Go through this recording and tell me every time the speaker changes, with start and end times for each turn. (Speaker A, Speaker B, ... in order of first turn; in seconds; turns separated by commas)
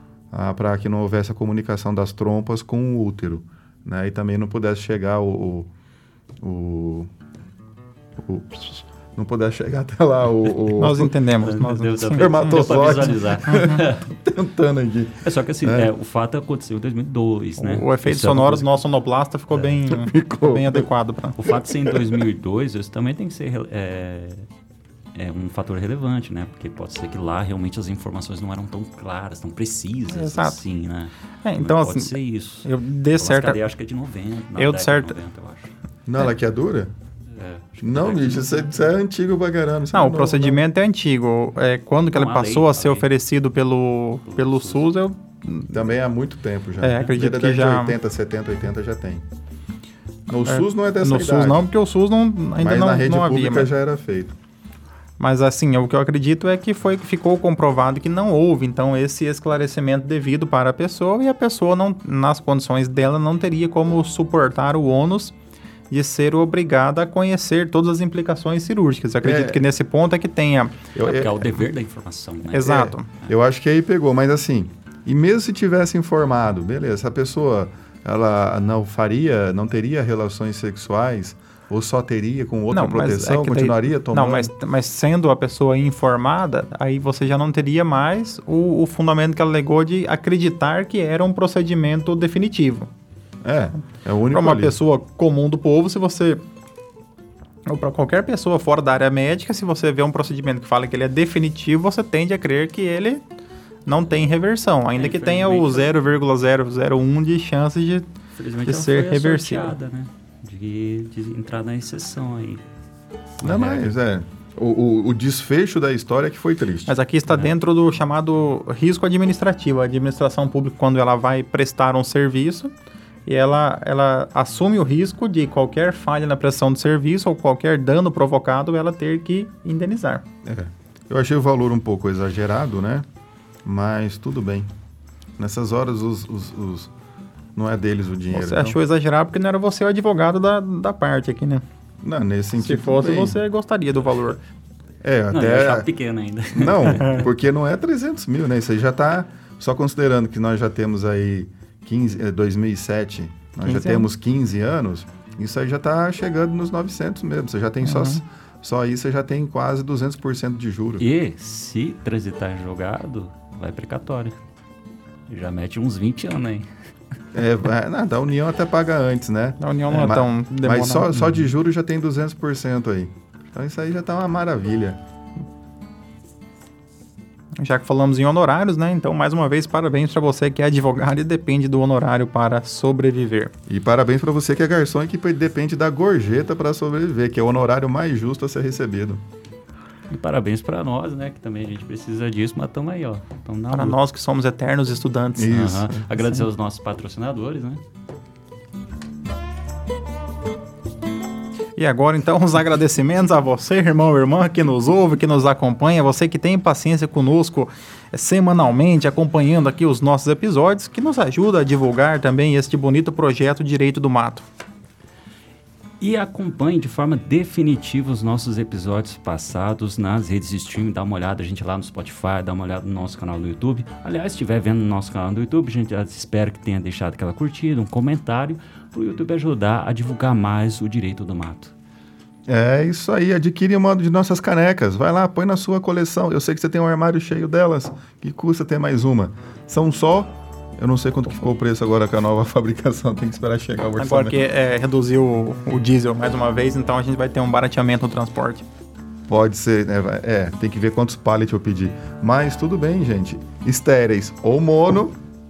Speaker A: 0.3-5.7, Speaker A: 6.4-7.1, Speaker A: 8.2-11.1, Speaker B: 10.8-12.6, Speaker C: 11.4-14.2, Speaker A: 12.1-15.9, Speaker B: 13.5-13.8, Speaker C: 15.2-18.7, Speaker B: 17.6-21.4, Speaker A: 19.9-20.9, Speaker C: 21.4-24.5, Speaker A: 21.7-22.2, Speaker C: 25.1-35.7, Speaker B: 30.1-30.6, Speaker B: 31.4-33.6, Speaker B: 34.6-35.1, Speaker A: 36.1-36.9, Speaker C: 37.3-38.9, Speaker A: 37.8-40.6, Speaker B: 39.9-45.8, Speaker C: 42.1-43.1, Speaker C: 44.3-44.9, Speaker A: 45.7-49.3, Speaker B: 46.8-48.0, Speaker A: 50.3-51.7, Speaker B: 50.5-53.7, Speaker A: 52.6-54.4, Speaker B: 55.2-65.3, Speaker B: 65.9-70.8, Speaker A: 69.2-69.6, Speaker A: 71.0-71.6, Speaker C: 71.0-73.2, Speaker B: 72.5-73.1, Speaker A: 72.6-84.5, Speaker B: 82.7-92.9, Speaker A: 93.4-94.8, Speaker B: 94.3-96.4, Speaker B: 97.7-103.2, Speaker B: 103.9-108.1, Speaker C: 105.0-106.1, Speaker C: 108.3-112.6, Speaker B: 108.7-109.7, Speaker C: 113.4-113.9, Speaker A: 113.4-116.9, Speaker B: 116.9-122.7, Speaker B: 123.3-130.2, Speaker A: 130.4-133.1, Speaker A: 133.7-134.7, Speaker A: 135.4-136.9, Speaker A: 137.6-138.8, Speaker B: 138.3-141.6, Speaker A: 142.0-143.4, Speaker B: 142.6-144.4, Speaker A: 145.0-145.9, Speaker C: 145.3-147.3, Speaker A: 146.6-161.1, Speaker B: 153.6-154.1, Speaker B: 157.8-158.2, Speaker C: 161.0-164.4, Speaker C: 165.3-166.7, Speaker A: 167.3-175.0, Speaker B: 169.6-171.4, Speaker B: 177.6-183.5, Speaker A: 183.7-189.2, Speaker C: 190.1-194.0, Speaker B: 193.7-195.6, Speaker A: 195.4-196.1, Speaker C: 195.5-197.8, Speaker B: 201.8-214.5, Speaker C: 216.0-231.7, Speaker A: 232.5-244.4, Speaker B: 244.0-248.7, Speaker A: 249.3-255.2